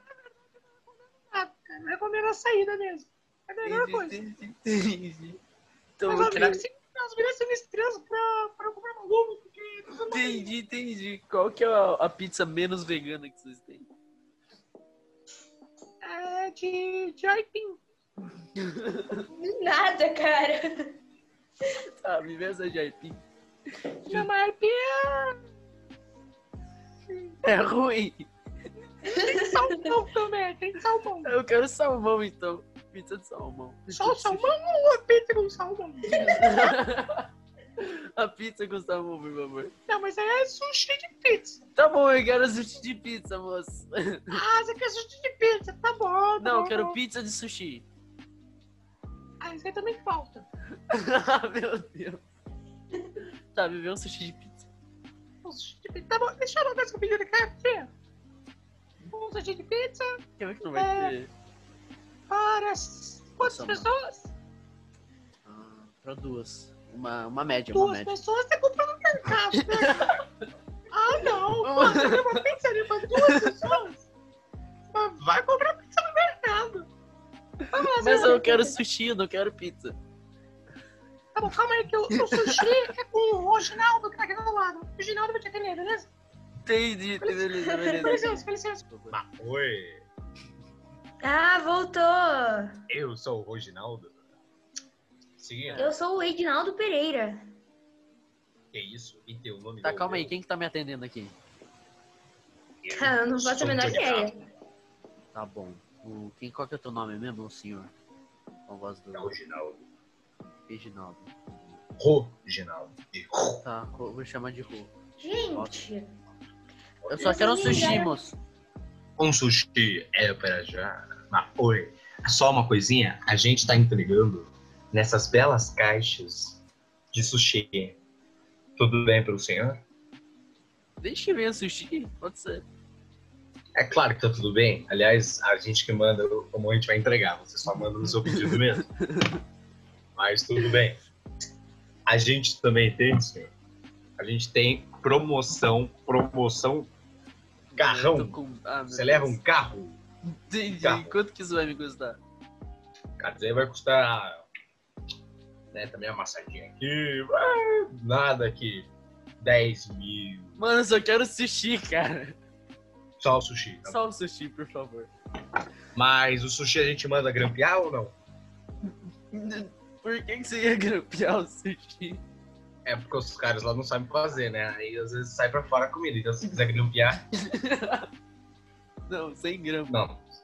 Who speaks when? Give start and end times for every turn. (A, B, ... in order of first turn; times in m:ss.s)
0:00.4-0:04.2 A
0:03.6-0:05.4 B
0:06.0-0:06.6 B
0:06.1-0:10.5 A
0:10.1-0:13.9 B
0:16.0-0:17.8 A
0:18.6-0:19.3 B
0:19.3-0:20.9 C
0:22.0-0:23.2 B
0:24.1-0:25.4 A
0:27.4-0:28.3 B
0:29.0-0:31.3 A
0:29.1-0:29.8 C
0:31.2-0:34.5 B
0:33.9-0:36.6 A
0:36.0-0:39.7 B
0:39.9-0:41.6 A
0:41.8-0:44.4 B
0:44.3-0:47.0 A
0:46.4-0:47.8 B
0:49.4-0:50.4 A
0:50.9-0:52.2 B
0:53.5-0:54.7 B
0:55.4-0:57.9 A
0:59.1-1:00.2 A
1:00.4-1:01.3 B
1:00.8-1:01.2 A
1:02.3-1:04.3 A
1:03.4-1:03.9 B
1:05.5-1:08.1 B
1:07.7-1:10.2 A
1:09.5-1:10.2 B
1:10.9-1:14.0 A
1:11.6-1:12.5 B
1:13.2-1:13.6 B
1:14.9-1:16.9 A
1:15.2-1:15.5 D
1:17.7-1:18.4 A
1:18.0-1:20.0 B
1:18.2-1:18.7 C
1:21.4-1:26.1 A
1:22.1-1:22.7 B
1:26.6-1:29.2 B
1:27.2-1:28.8 A
1:27.6-1:28.3 C
1:29.1-1:30.0 D
1:31.2-1:32.8 C
1:32.9-1:34.2 D
1:35.4-1:35.8 D
1:35.6-1:36.0 B
1:35.8-1:37.4 C
1:38.7-1:40.3 D
1:39.8-1:41.4 B
1:42.8-1:44.3 D
1:42.9-1:44.4 C
1:45.3-1:47.9 B
1:48.7-1:49.3 B
1:49.1-1:49.8 D
1:50.7-1:51.8 B
1:52.0-1:53.6 D
1:53.6-1:55.8 B
1:55.2-1:56.1 C
1:57.1-1:57.8 D
1:57.1-1:58.2 C
1:57.1-1:58.4 B
1:59.2-2:06.6 D
2:07.1-2:08.0 D
2:08.8-2:09.8 D
2:11.0-2:12.6 B
2:13.8-2:18.9 D
2:18.2-2:19.4 B
2:20.2-2:21.0 D
2:22.1-2:23.5 D
2:24.2-2:26.9 D
2:27.7-2:29.4 B
2:27.8-2:30.0 D
2:30.5-2:32.2 B
2:30.8-2:31.2 D
2:33.2-2:34.4 D
2:35.7-2:38.9 D
2:39.4-2:40.6 D
2:40.6-2:42.4 B
2:43.2-2:44.0 D
2:43.9-2:45.1 B
2:45.9-2:48.2 D
2:49.3-2:52.2 B
2:52.8-2:57.2 D
2:57.4-2:58.1 B
2:59.1-3:00.0 B
2:59.9-3:00.2 D